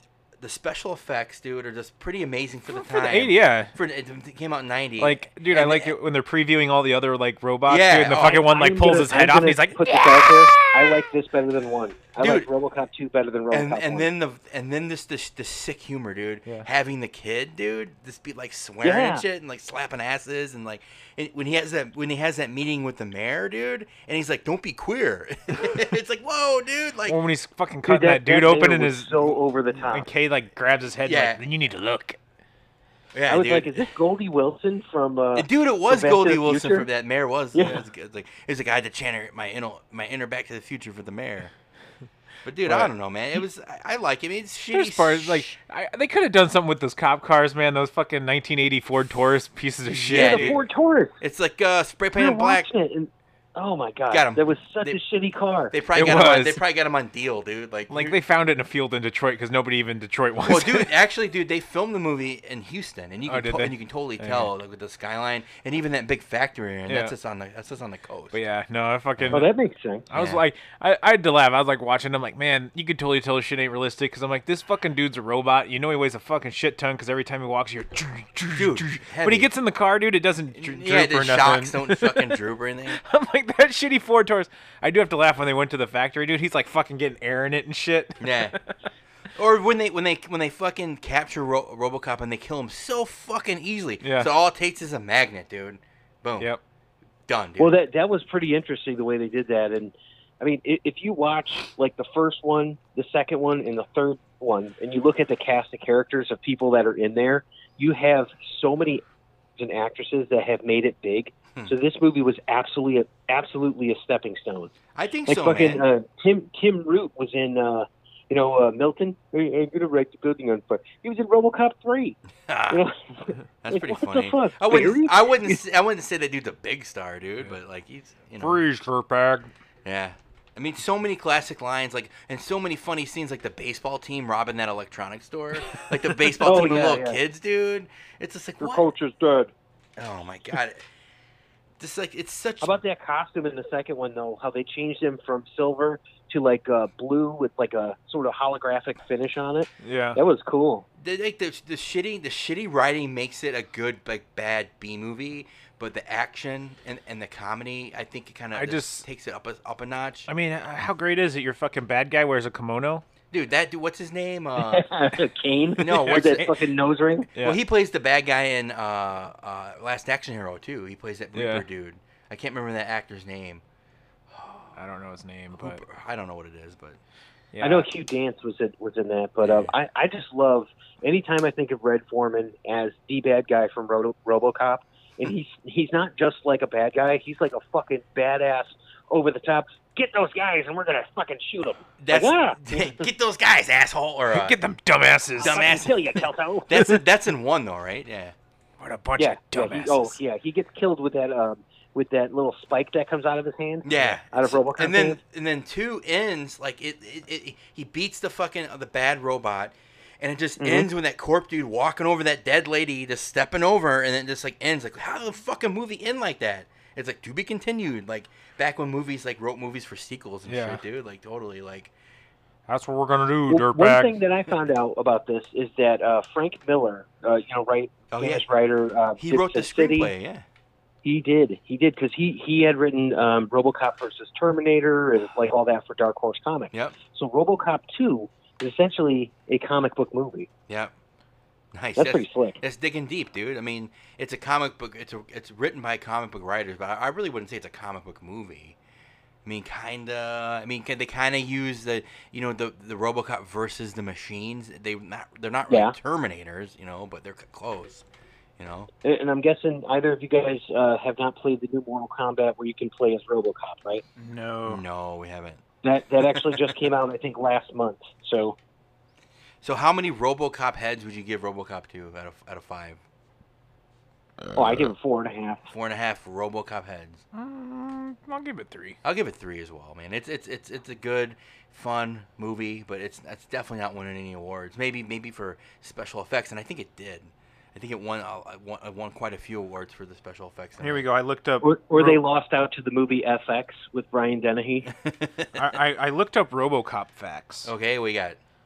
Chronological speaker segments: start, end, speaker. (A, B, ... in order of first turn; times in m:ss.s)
0:00.4-0:06.0 A
0:02.7-0:03.7 B
0:05.0-0:10.6 B
0:07.7-0:08.4 A
0:08.1-0:14.1 C
0:12.2-0:12.5 A
0:13.5-0:27.2 A
0:18.8-0:19.2 C
0:27.1-0:32.2 B
0:27.9-0:30.1 C
0:31.0-0:31.4 A
0:33.1-0:33.9 A
0:33.3-0:36.9 C
0:35.4-0:41.5 A
0:37.5-0:37.8 C
0:42.4-0:45.5 A
0:42.6-0:42.9 B
0:44.7-0:50.6 B
0:50.0-0:50.6 A
0:50.1-0:51.2 C
0:51.2-0:52.7 A
0:52.2-0:55.7 C
0:54.1-0:55.0 A
0:55.7-0:58.2 A
0:55.9-0:56.6 B
0:57.9-1:00.9 B
1:00.4-1:08.4 A
1:03.3-1:04.5 B
1:06.9-1:07.2 B
1:08.3-1:09.5 B
1:09.2-1:09.4 A
1:09.3-1:10.0 C
1:10.1-1:28.6 B
1:10.1-1:10.4 A
1:18.6-1:19.5 A
1:20.6-1:23.0 A
1:28.2-1:28.6 A
1:29.4-1:36.5 A
1:34.0-1:34.3 B
1:37.3-1:37.7 A
1:37.6-1:49.0 C
1:49.6-1:54.7 C
1:55.0-1:55.8 A
1:55.3-2:02.2 C
2:02.5-2:02.8 A
2:02.7-2:05.6 C
2:03.6-2:08.6 A
2:08.4-2:09.5 B
2:09.8-2:18.9 A
2:16.4-2:17.2 C
2:18.6-2:19.5 C
2:20.0-2:20.8 A
2:21.8-2:22.8 A
2:22.6-2:30.9 C
2:29.8-2:30.2 B
2:31.0-2:40.3 A
2:38.5-2:39.1 B
2:40.3-2:43.0 B
2:43.3-2:44.9 A
2:44.6-2:47.3 C
2:45.8-2:46.5 A
2:45.9-2:46.6 B
2:47.4-2:53.6 A
2:51.3-2:51.6 B
2:54.3-2:54.8 A
2:54.8-2:55.8 B
2:55.6-2:57.0 A
2:57.5-2:57.9 B
2:57.6-3:13.0 C
2:59.4-2:59.7 A
3:12.0-3:14.6 A
3:14.3-3:15.8 B
3:15.4-3:17.0 C
3:15.4-3:18.4 A
3:18.8-3:20.2 B
3:19.2-3:25.2 C
3:23.8-3:41.9 A
3:30.6-3:30.9 C
3:40.5-3:40.8 B
3:42.7-3:44.2 B
3:43.5-3:50.1 C
3:48.1-3:48.5 A
3:49.2-3:50.4 A
3:51.0-4:00.5 C
3:56.7-3:57.0 A
4:01.7-4:08.8 A
4:02.0-4:02.6 C
4:09.4-4:18.0 A
4:15.7-4:16.0 C
4:18.6-4:18.9 A
4:19.0-4:24.0 C
4:24.2-4:24.8 B
4:24.7-4:25.6 A
4:25.8-4:28.6 C
4:26.4-4:26.7 A
4:29.6-4:33.0 A
4:34.6-4:35.7 C
4:35.7-4:37.2 A
4:37.3-4:39.0 B
4:39.0-4:51.0 A
4:50.8-4:52.2 B
4:51.6-4:54.9 C
4:54.9-4:55.5 A
4:55.6-4:57.7 B
4:57.6-4:58.4 A